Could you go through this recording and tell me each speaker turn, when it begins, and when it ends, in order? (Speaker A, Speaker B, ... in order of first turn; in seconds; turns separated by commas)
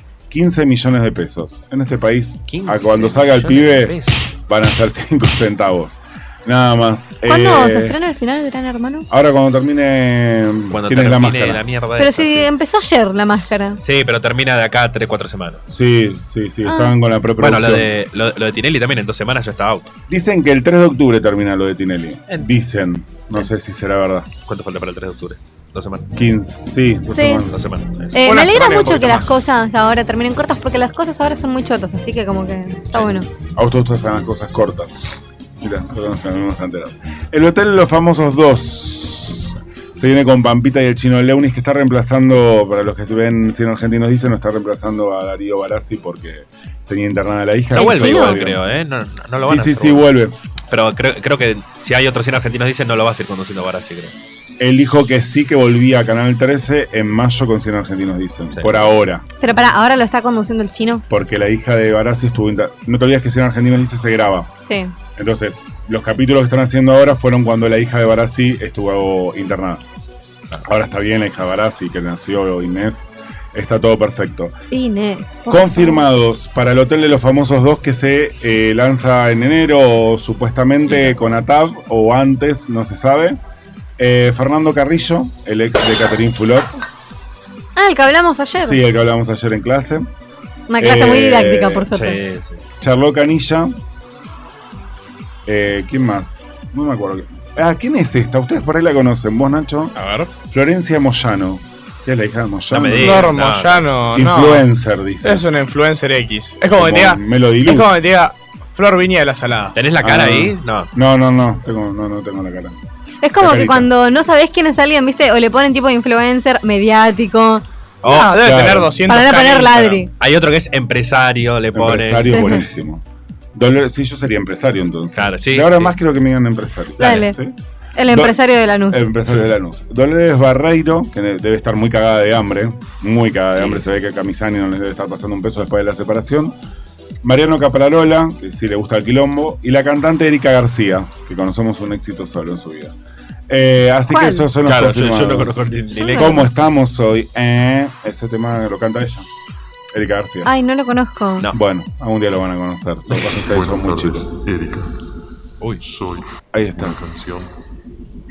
Speaker A: 0.3-8.0, Speaker B: 2.5-4.2, Speaker C: 7.3-9.1, Speaker A: 9.1-11.6, Speaker B: 10.7-12.5, Speaker C: 12.0-13.8, Speaker B: 13.8-15.6, Speaker A: 15.7-17.9, Speaker C: 16.6-16.9, Speaker B: 17.4-19.9, Speaker A: 20.1-24.3, Speaker B: 24.4-26.1, Speaker A: 26.1-27.6, Speaker C: 27.1-27.4, Speaker B: 27.5-28.2, Speaker C: 28.1-33.3, Speaker D: 28.2-29.3, Speaker A: 33.5-34.9, Speaker A: 35.6-48.6, Speaker C: 47.7-48.4, Speaker B: 47.8-50.0, Speaker A: 49.4-50.3, Speaker B: 50.7-54.1, Speaker A: 54.6-59.2, Speaker B: 58.5-58.9, Speaker C: 59.4-61.0, Speaker A: 61.1-64.5, Speaker C: 64.6-64.9, Speaker A: 65.2-69.8, Speaker A: 70.6-74.5, Speaker C: 74.7-76.0, Speaker A: 75.5-83.4, Speaker B: 80.9-81.4, Speaker A: 84.0-86.7, Speaker C: 87.8-88.8, Speaker A: 88.6-90.1, Speaker C: 90.7-92.2, Speaker A: 90.8-91.9, Speaker B: 91.9-92.6, Speaker A: 92.8-93.8, Speaker A: 95.5-99.9, Speaker D: 100.0-100.3, Speaker A: 100.5-103.3, Speaker B: 102.7-103.9, Speaker D: 103.0-104.7, Speaker A: 104.1-105.4, Speaker D: 105.2-109.8, Speaker A: 106.7-107.9, Speaker B: 109.7-110.9, Speaker A: 110.0-112.8, Speaker C: 113.2-117.6, Speaker A: 113.4-113.9, Speaker B: 118.0-118.5, Speaker D: 118.0-120.0, Speaker A: 118.3-118.9, Speaker C: 119.1-120.1, Speaker B: 120.2-122.5, Speaker A: 121.7-123.0, Speaker C: 122.3-122.6, Speaker A: 123.5-127.5, Speaker B: 125.1-125.9, Speaker C: 127.0-127.3, Speaker C: 128.0-129.1, Speaker A: 128.1-128.4, Speaker A: 128.9-136.6, Speaker B: 133.6-133.8, Speaker A: 137.2-142.9, Speaker A: 143.5-145.6, Speaker C: 144.1-144.5, Speaker B: 144.6-146.5, Speaker C: 145.9-146.4, Speaker A: 146.1-149.3, Speaker A: 149.9-150.5, Speaker C: 150.4-151.5, Speaker A: 151.5-154.3, Speaker E: 153.4-154.9, Speaker E: 155.8-157.5, Speaker A: 156.5-157.0